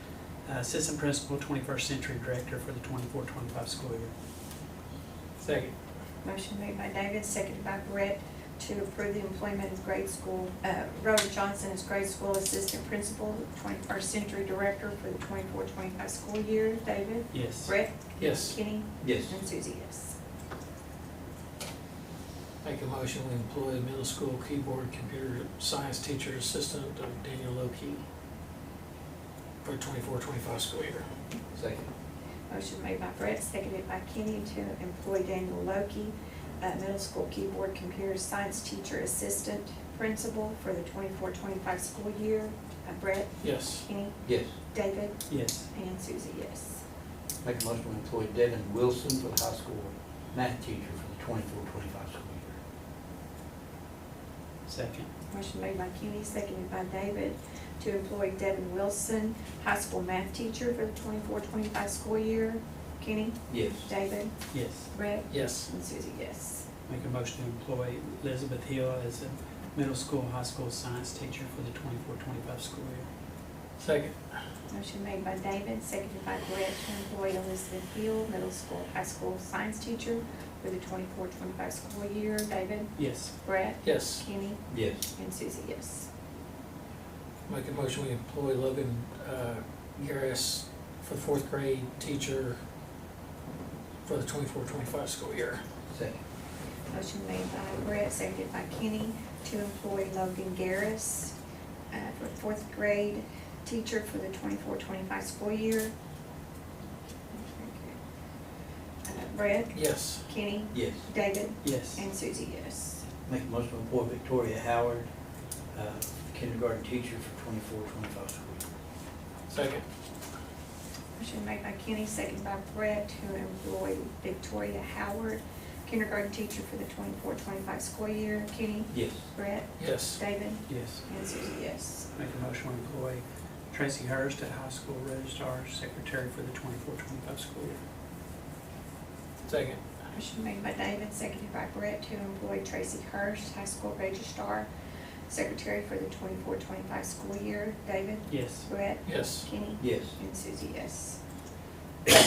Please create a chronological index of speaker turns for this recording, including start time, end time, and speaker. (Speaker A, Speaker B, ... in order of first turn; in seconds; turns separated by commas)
Speaker A: 0.4-4.1, Speaker B: 5.4-5.7, Speaker C: 6.2-20.1, Speaker A: 17.3-17.7, Speaker B: 18.2-18.6, Speaker D: 19.0-19.4, Speaker B: 22.6-28.0, Speaker B: 29.6-31.0, Speaker D: 31.5-31.9, Speaker C: 32.5-46.8, Speaker B: 43.4-43.8, Speaker D: 44.2-44.5, Speaker A: 45.3-45.7, Speaker D: 47.4-52.6, Speaker A: 54.6-55.1, Speaker C: 55.3-64.3, Speaker D: 63.5-63.9, Speaker A: 64.5-64.9, Speaker C: 64.9-66.6, Speaker B: 65.3-65.7, Speaker A: 66.9-73.1, Speaker B: 73.8-74.3, Speaker C: 74.7-86.1, Speaker A: 83.0-83.3, Speaker B: 83.8-84.2, Speaker D: 84.7-85.0, Speaker B: 87.5-92.6, Speaker B: 94.0-95.6, Speaker D: 95.9-96.2, Speaker C: 96.9-101.3, Speaker C: 101.9-105.9, Speaker C: 107.3-108.0, Speaker C: 109.0-113.0, Speaker B: 109.7-110.2, Speaker D: 110.7-111.1, Speaker A: 111.6-112.1, Speaker D: 113.2-115.1, Speaker D: 115.7-118.6, Speaker B: 119.5-119.8, Speaker C: 121.2-132.1, Speaker D: 128.9-129.2, Speaker B: 129.8-130.2, Speaker A: 130.7-131.0, Speaker A: 132.1-137.8, Speaker B: 139.4-139.8, Speaker C: 140.1-144.7, Speaker C: 145.3-151.2, Speaker A: 148.3-148.7, Speaker B: 149.1-149.5, Speaker D: 149.8-150.2